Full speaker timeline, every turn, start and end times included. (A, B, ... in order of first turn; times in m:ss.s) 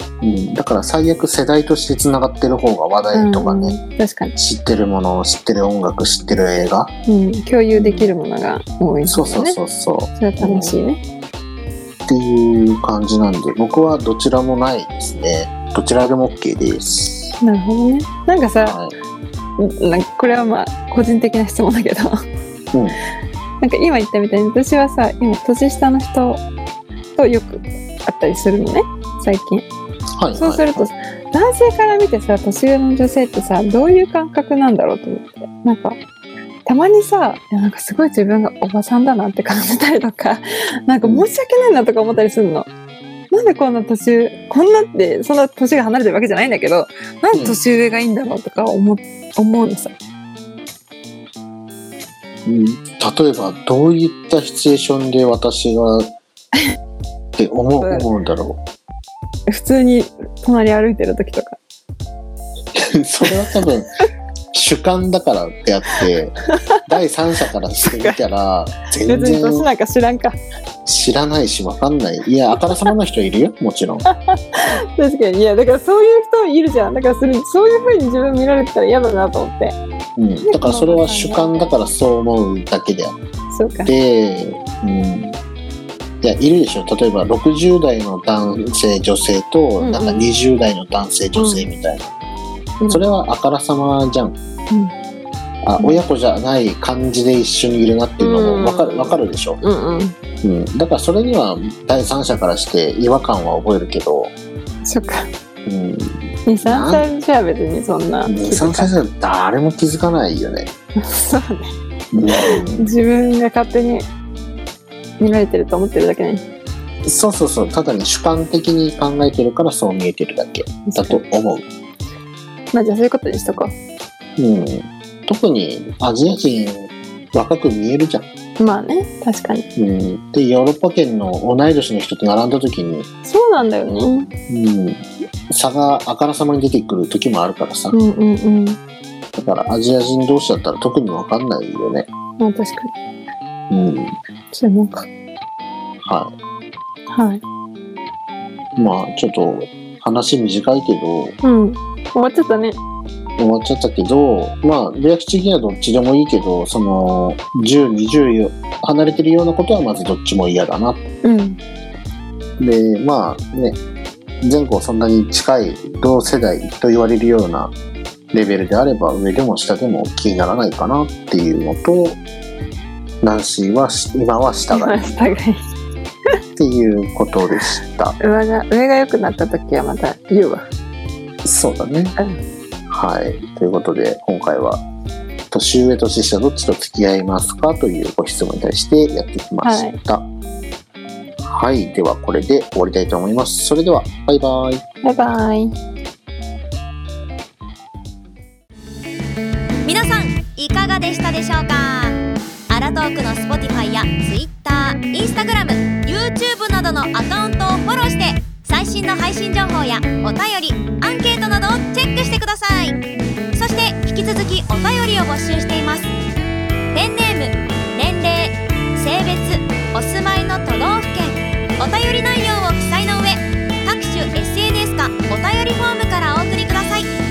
0:00.2-0:03.8 A
0:03.1-0:04.3 B
0:04.4-0:06.9 A
0:07.0-0:11.0 B
0:07.7-0:08.1 A
0:09.0-0:10.8 A
0:12.1-0:17.3 A
0:17.4-0:18.8 B
0:18.6-0:18.9 A
0:19.6-0:22.1 B
0:22.7-0:23.0 A
0:23.6-0:26.4 B
0:27.1-0:29.6 B
0:30.2-0:30.9 A
0:30.3-0:36.0 B
0:36.6-0:42.7 B
0:41.0-0:41.3 A
0:43.3-0:49.9 B
0:47.3-0:47.6 A
0:52.4-0:56.1 A
0:57.4-0:58.6 A
0:57.8-0:58.1 B
0:59.5-1:01.6 B
1:02.7-1:03.9 A
1:04.5-1:09.7 A
1:06.0-1:06.8 B
1:07.9-1:08.2 B
1:09.0-1:10.4 B
1:10.8-1:14.0 A
1:14.0-1:19.8 B
1:20.2-1:23.2 A
1:20.4-1:21.7 B
1:23.5-1:23.9 B
1:23.8-1:25.4 A
1:26.2-1:32.1 A
1:29.8-1:30.2 B
1:31.3-1:31.7 B
1:32.8-1:33.1 B
1:32.9-1:34.4 A
1:35.6-1:39.6 A
1:38.2-1:40.1 B
1:40.4-1:44.3 A
1:44.8-1:45.3 B
1:45.6-1:47.1 A
1:46.4-1:48.9 B
1:48.2-1:50.7 A
1:50.9-1:51.7 B
1:52.1-1:52.9 A
1:52.4-1:54.0 B
1:55.2-1:56.4 B
1:57.0-2:01.6 A
2:00.8-2:01.2 B
2:02.7-2:03.7 B
2:04.4-2:08.3 A
2:08.6-2:09.6 B
2:09.8-2:13.1 A
2:13.2-2:14.3 B
2:14.5-2:18.0 A
2:17.9-2:18.8 B
2:19.4-2:22.1 A
2:22.4-2:22.9 B
2:23.7-2:24.2 A
2:24.5-2:25.1 B
2:26.0-2:26.3 A
2:27.1-2:27.4 B
2:28.8-2:31.3 A
2:31.4-2:32.8 B
2:33.4-2:41.0 A
2:41.2-2:41.6 B
2:42.6-2:43.8 A
2:44.4-2:47.7 A
2:48.3-2:52.2 A
2:53.2-2:55.3 A
2:54.7-2:55.6 B
2:56.6-2:58.2 A
2:58.2-3:00.6 B
3:01.4-3:02.2 A
3:02.9-3:04.8 A
3:05.5-3:10.3 A
3:09.6-3:10.0 B
3:11.4-3:14.8 A
3:15.0-3:15.8 B
3:19.8-3:22.2 C
3:22.7-3:33.0 C
3:33.5-3:36.1 C
3:36.9-3:47.1 C